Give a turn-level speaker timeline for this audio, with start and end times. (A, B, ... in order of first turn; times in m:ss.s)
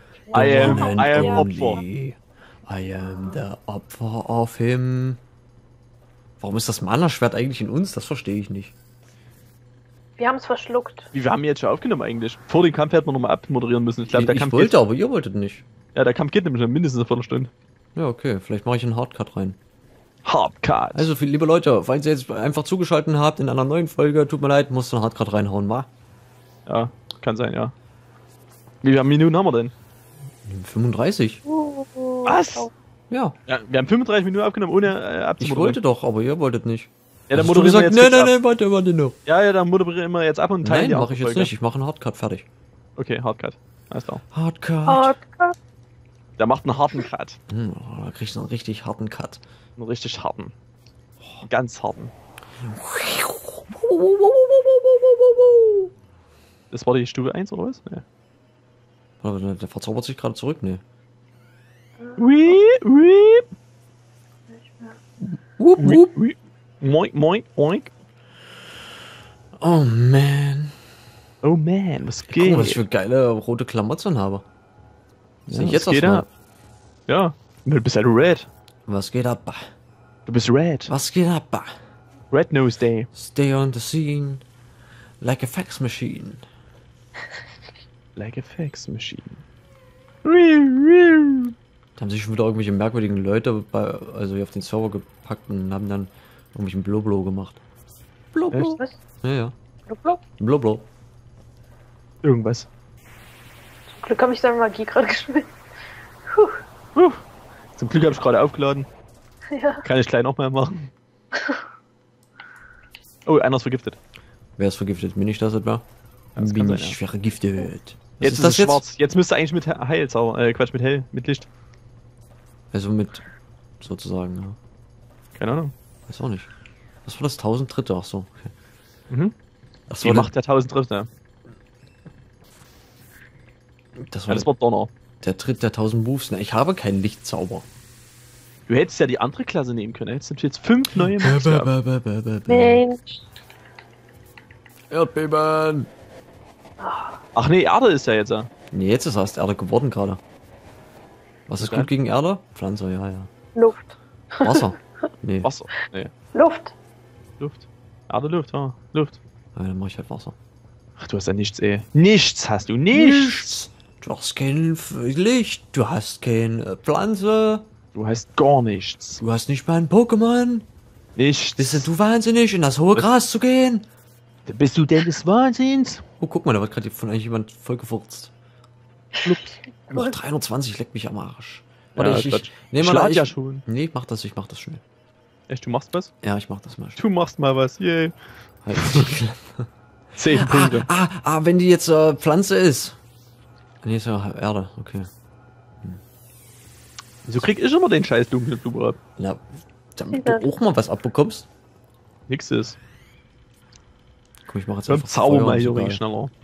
0:00.3-0:01.8 A
0:00.3-0:01.8 B
0:00.3-0:05.2 C
0:06.4-0:08.7 C
0:10.2-0:11.1 A
0:11.1-0:14.8 B
0:14.1-0:15.6 C
0:16.0-0:17.5 B
0:18.0-0:19.6 C
0:20.2-0:21.1 B
0:21.0-0:25.9 C
0:26.7-0:27.7 B
0:28.8-0:29.7 B
0:30.5-0:31.4 C
0:31.5-0:32.7 A
0:32.3-0:32.7 B
0:33.1-0:33.4 C
0:33.5-0:35.8 B
0:35.4-0:39.2 C
0:37.3-0:38.4 B
0:39.3-0:41.5 B
0:40.6-0:42.5 C
0:43.0-0:44.2 B
0:44.3-0:45.2 C
0:44.9-0:45.6 A
0:46.4-0:47.4 B
0:47.5-0:49.4 C
0:49.8-0:50.5 B
0:51.5-0:52.1 B
0:52.6-0:55.9 C
0:56.7-0:58.0 B
0:59.2-1:00.8 C
1:02.0-1:02.5 A
1:02.2-1:03.4 B
1:04.5-1:05.0 A
1:05.6-1:06.1 C
1:05.8-1:07.9 B
1:09.6-1:10.8 C
1:11.4-1:12.8 B
1:12.3-1:14.4 C
1:15.5-1:16.3 B
1:15.5-1:16.3 C
1:17.1-1:18.5 B
1:18.9-1:19.7 C
1:20.3-1:20.9 B
1:20.9-1:21.8 C
1:22.3-1:23.1 B
1:23.1-1:24.4 C
1:25.2-1:26.4 C
1:28.2-1:29.4 B
1:30.2-1:31.5 B
1:32.0-1:37.6 C
1:38.3-1:39.5 C
1:38.5-1:38.8 B
1:39.9-1:40.2 A
1:40.4-1:40.8 C
1:42.2-1:42.7 B
1:43.9-1:45.5 A
1:46.3-1:46.6 A
1:47.0-1:47.2 B
1:47.8-1:48.9 B
1:49.5-1:49.8 A
1:49.8-1:50.9 B
1:51.3-1:51.6 A
1:53.3-1:54.0 B
1:54.6-1:55.8 C
1:56.4-1:57.0 B
1:56.4-1:58.8 C
1:58.2-2:01.5 B
2:02.7-2:03.3 C
2:03.8-2:04.6 C
2:05.4-2:05.7 B
2:06.1-2:06.5 C
2:07.0-2:08.5 C
2:09.9-2:10.3 C
2:10.0-2:11.1 B
2:14.0-2:14.5 C
2:14.3-2:14.9 B
2:15.2-2:17.7 C
2:18.7-2:21.7 B
2:21.0-2:22.8 C
2:22.5-2:23.2 A
2:24.9-2:25.9 C
2:26.8-2:27.2 A
2:27.4-2:28.5 B
2:28.7-2:30.2 C
2:31.5-2:33.3 C
2:31.6-2:31.9 B
2:33.6-2:34.7 A
2:34.4-2:35.5 C
2:35.4-2:36.1 B
2:36.3-2:36.7 A
2:37.4-2:39.2 B
2:39.6-2:40.4 C
2:41.0-2:43.5 B
2:42.9-2:47.6 C
2:48.0-2:49.2 B
2:49.2-2:50.7 C
2:51.2-2:51.9 B
2:51.6-2:53.9 C
2:54.5-2:56.0 B
2:56.2-2:58.3 C
2:59.2-3:00.1 A
2:59.9-3:04.8 C
3:02.0-3:03.6 B
3:05.5-3:06.1 B
3:06.2-3:07.0 C
3:07.0-3:08.2 B
3:08.6-3:09.7 C
3:08.8-3:09.1 B
3:10.2-3:10.9 B
3:10.3-3:13.0 C
3:13.8-3:15.1 C
3:17.3-3:19.0 B
3:19.2-3:21.5 C
3:20.1-3:20.5 A
3:22.3-3:22.8 B
3:24.5-3:26.0 C
3:24.9-3:26.3 B